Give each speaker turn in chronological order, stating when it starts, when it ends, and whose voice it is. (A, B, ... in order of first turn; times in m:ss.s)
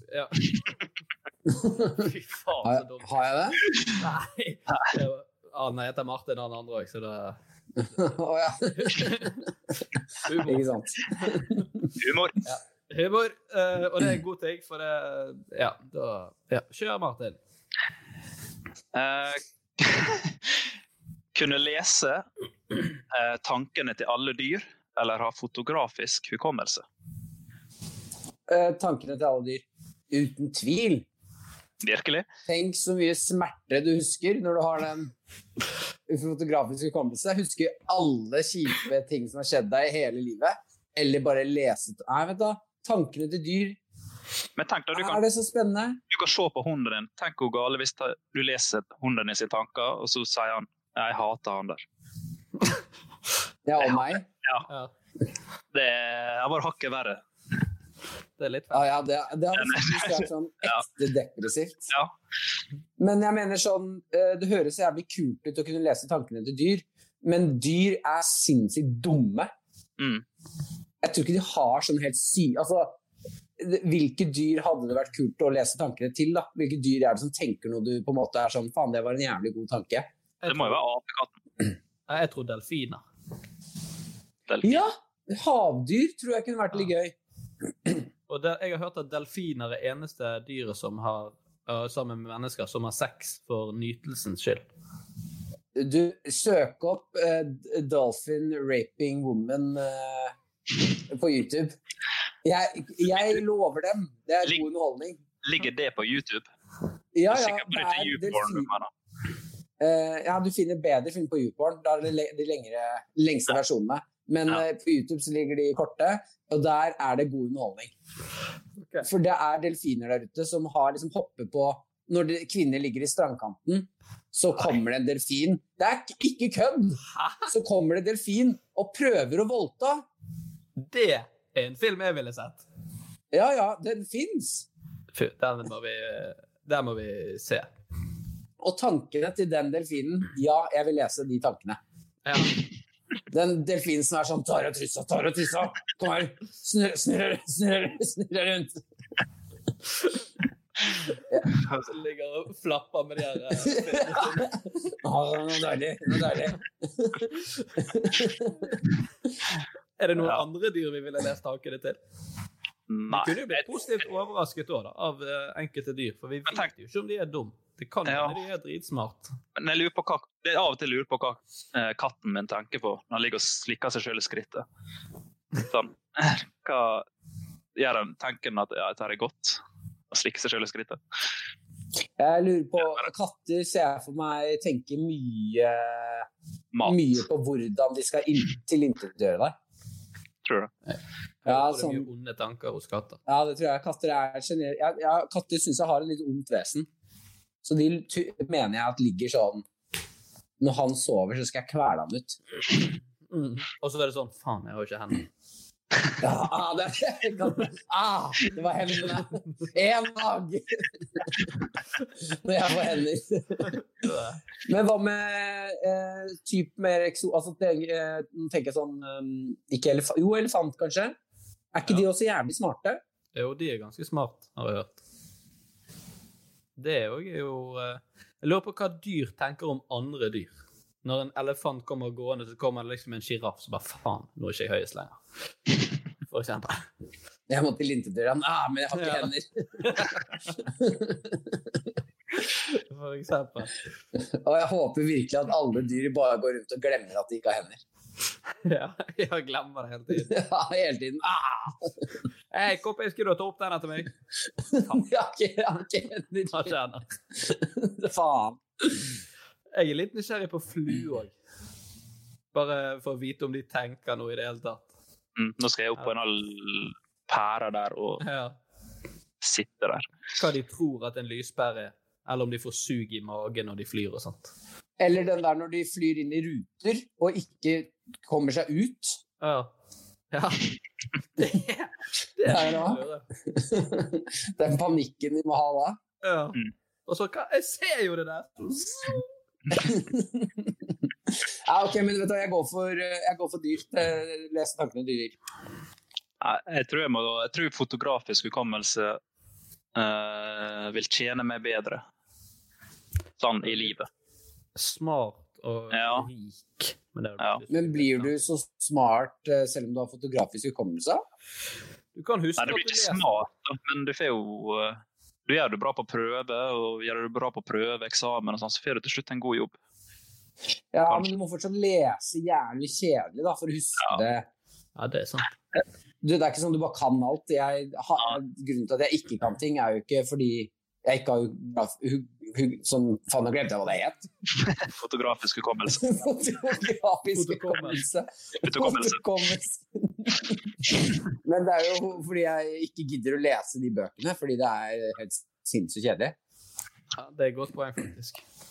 0:00.1-0:00.4 A
0:01.6-0:01.9 B
0:01.9-0:03.1 A
0:02.6-0:03.6 B
0:04.0-0:07.4 A
0:07.8-0:09.2 B
0:08.8-0:09.4 A
0:10.2-0:10.7 A
0:10.4-0:11.7 B
0:12.0-0:12.4 C
0:12.4-0:17.4 A
0:18.9-0:20.3 C
0:21.3-0:22.2 C
0:23.1-0:26.8 C
0:28.5-0:31.1 B
0:31.8-0:32.3 C
0:32.5-0:35.1 B
0:36.1-0:43.8 B
0:44.6-0:45.2 C
0:44.9-0:46.0 B
0:46.1-0:51.8 C
0:53.6-0:54.3 B
0:53.8-0:54.7 C
0:55.7-0:57.2 C
0:58.4-0:59.0 A
0:58.7-1:01.9 B
0:59.6-1:00.8 C
1:03.0-1:09.5 B
1:10.0-1:10.2 C
1:11.0-1:13.0 B
1:13.6-1:20.1 B
1:20.4-1:20.8 A
1:20.5-1:21.3 C
1:22.1-1:23.0 A
1:24.5-1:24.8 C
1:24.6-1:27.1 B
1:28.3-1:34.6 A
1:35.7-1:40.4 B
1:41.1-1:41.7 B
1:42.4-1:45.2 B
1:45.4-1:46.5 C
1:47.2-1:48.7 B
1:47.3-1:48.9 C
1:49.8-1:57.9 B
1:58.8-1:59.1 A
1:59.0-2:10.0 B
2:07.2-2:07.4 A
2:10.8-2:12.6 A
2:13.3-2:14.7 B
2:15.1-2:17.7 A
2:18.6-2:21.8 B
2:22.2-2:22.5 A
2:23.3-2:28.8 B
2:31.8-2:34.5 A
2:33.6-2:37.3 B
2:37.8-2:38.8 B
2:40.0-2:42.0 A
2:42.9-2:43.6 C
2:43.1-2:49.3 A
2:48.1-2:48.4 C
2:49.6-2:54.6 C
2:55.6-2:57.0 C
2:57.8-2:59.6 C
3:00.1-3:01.0 C
3:02.2-3:06.3 B
3:06.7-3:07.2 C
3:06.8-3:09.6 B
3:10.4-3:10.7 C
3:11.4-3:13.2 A
3:11.5-3:12.1 B
3:13.3-3:16.9 B
3:17.6-3:19.6 B
3:20.6-3:22.4 B
3:23.3-3:25.3 A
3:26.2-3:31.5 B
3:32.3-3:33.8 B
3:33.7-3:34.4 A
3:34.7-3:41.2 B
3:41.7-3:43.0 B
3:43.4-3:45.0 A
3:46.8-3:50.5 A
3:51.0-3:55.2 A
3:56.3-3:56.8 A
3:57.5-4:01.8 B
3:58.9-3:59.3 A
3:59.8-4:00.2 A
4:02.7-4:03.7 A
4:04.2-4:07.8 B
4:08.6-4:10.4 A
4:10.2-4:11.9 B
4:12.5-4:14.1 A
4:14.7-4:16.8 B
4:16.5-4:17.1 A
4:17.5-4:18.6 B
4:19.7-4:21.3 A
4:22.5-4:24.9 A
4:25.4-4:28.2 C
4:28.2-4:28.6 A
4:29.4-4:30.1 C
4:30.4-4:34.5 A
4:35.0-4:39.2 B
4:39.4-4:39.7 A
4:40.3-4:40.6 A
4:41.4-4:43.2 A
4:42.5-4:46.0 B
4:46.2-4:49.2 A
4:49.8-4:50.7 B
4:51.5-4:55.4 B
4:56.4-4:59.2 C
5:00.0-5:02.0 C
5:03.4-5:04.1 C
5:04.8-5:08.4 A
5:05.9-5:06.3 C
5:07.7-5:11.2 B
5:12.2-5:13.3 A
5:12.6-5:19.8 C
5:20.9-5:24.5 B
5:25.0-5:25.5 A
5:26.2-5:34.3 B
5:34.6-5:36.1 C
5:35.9-5:46.4 B
5:37.3-5:38.0 A
5:38.6-5:39.2 C
5:47.2-5:48.4 A